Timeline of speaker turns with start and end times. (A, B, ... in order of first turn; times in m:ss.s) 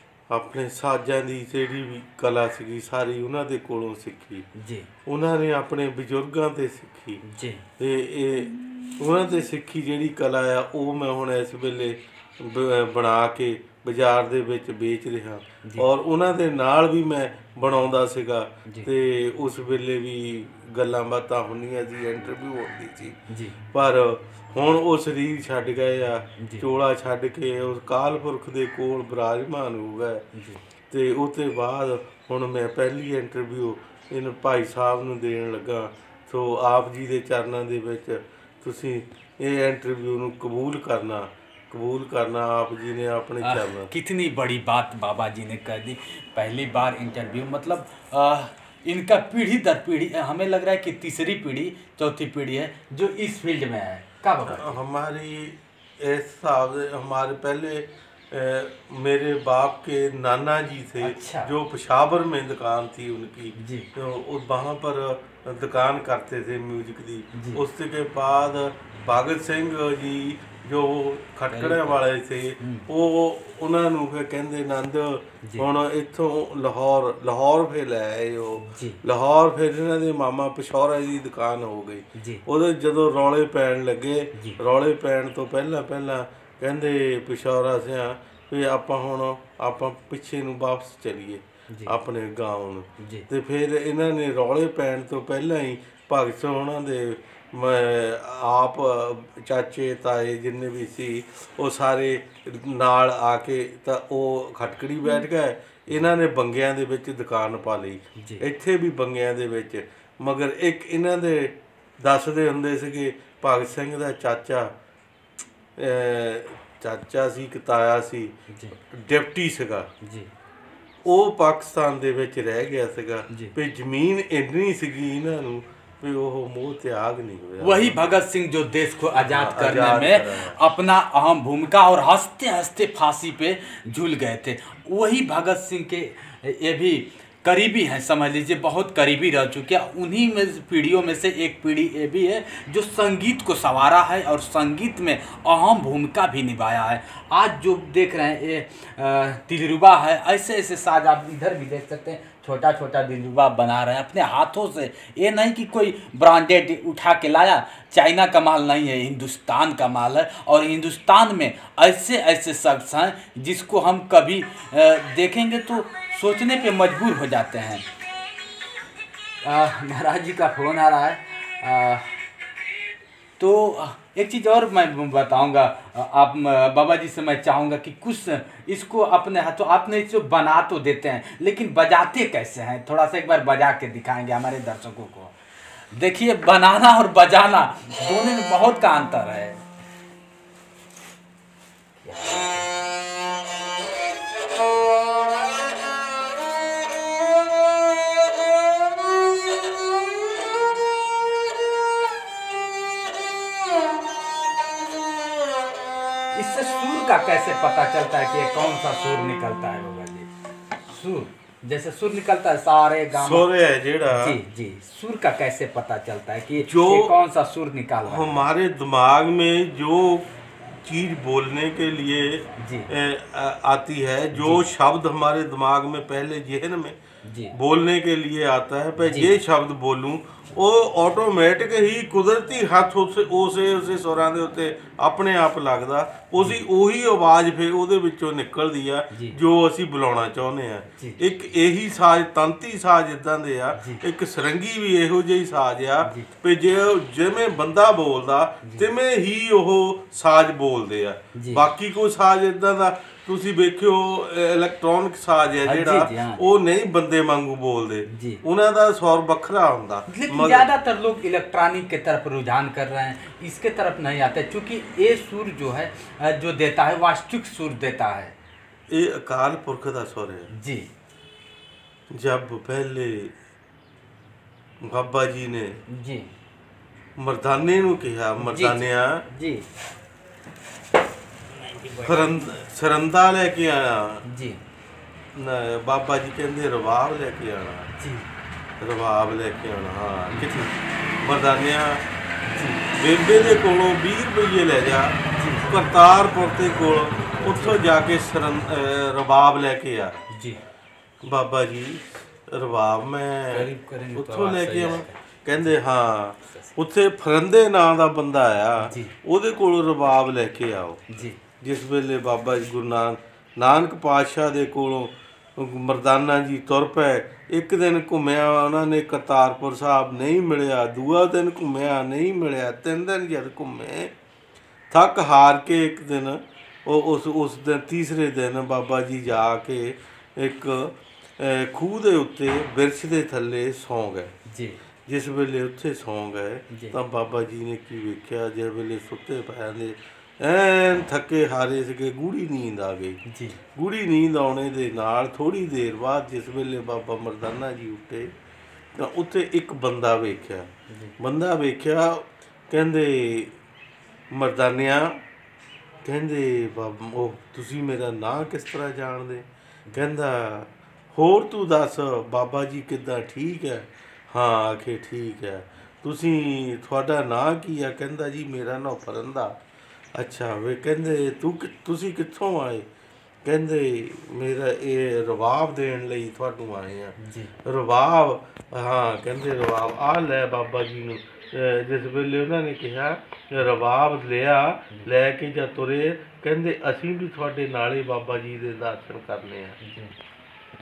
0:00.3-0:04.5 A
0:04.6-0:04.9 B
0:05.1-0:07.2 A
0:07.2-0:07.6 B
0:07.8-0:23.2 A
0:23.3-0:23.6 B
0:23.7-0:30.2 A
0:30.4-0:30.6 B
0:30.9-0:43.9 A
0:43.4-0:54.8 B
0:54.5-1:54.7 A
1:01.0-1:01.5 B
1:03.6-1:03.9 B
1:07.3-1:07.6 B
1:11.5-1:12.0 B
1:12.6-1:12.9 B
1:18.7-1:19.0 B
1:22.2-1:22.4 B
1:24.4-1:24.6 B
1:31.7-1:32.0 B
1:33.0-1:33.3 B
1:48.2-1:48.4 B
1:55.8-1:58.3 A
1:58.5-1:58.8 B
1:58.9-1:59.9 A
2:00.0-2:00.3 B
2:01.0-2:08.2 A
2:03.3-2:03.5 B
2:07.6-2:47.8 B
2:09.2-2:10.6 A
2:49.4-2:52.2 B
2:53.4-3:05.4 B
3:05.9-3:09.6 B
3:12.0-3:12.8 B
3:26.3-3:30.3 B
3:30.8-3:33.5 B
3:33.2-3:34.4 A
3:34.1-3:38.5 B
3:36.6-3:37.1 A
3:38.1-3:47.0 A
3:42.6-3:42.9 B
3:44.3-3:44.6 B
3:47.2-3:47.5 B
3:47.5-4:20.7 A
3:49.0-3:49.4 B
3:59.1-3:59.4 B
4:01.0-4:01.2 B
4:03.8-4:04.0 B
4:06.0-4:06.3 B
4:11.4-4:11.7 B
4:15.6-4:16.5 B
4:18.1-4:18.4 B
4:20.1-4:28.3 B
4:28.9-4:30.5 A
4:30.5-4:30.9 B
4:32.1-4:33.4 A
4:34.8-4:35.8 A
4:35.9-4:36.3 B
4:37.2-4:39.2 A
4:38.4-4:39.7 B
4:41.6-4:42.4 B
4:42.0-4:44.2 A
4:44.3-4:44.6 B
4:45.3-4:47.9 A
4:48.0-4:48.3 B
4:48.8-4:52.0 A
4:50.3-4:50.7 B
4:52.5-4:52.9 B
4:52.9-5:00.2 A
4:55.3-4:55.7 B
4:57.5-4:57.8 B
5:00.3-5:00.6 B
5:01.2-5:11.0 A
5:03.5-5:05.8 B
5:08.8-5:09.2 B
5:11.1-5:11.4 B
5:11.6-5:24.1 A
5:24.9-5:34.3 A
5:34.5-5:34.8 B
5:35.1-5:43.2 A
5:36.7-5:37.0 B
5:43.3-5:43.6 B
5:43.8-5:48.3 A
5:48.9-5:53.6 A
5:50.9-5:51.2 B
5:54.3-5:55.2 A
5:56.0-6:09.6 A
6:10.2-6:12.9 A
6:13.4-6:29.8 A
6:17.2-6:17.5 B
6:29.8-6:30.2 B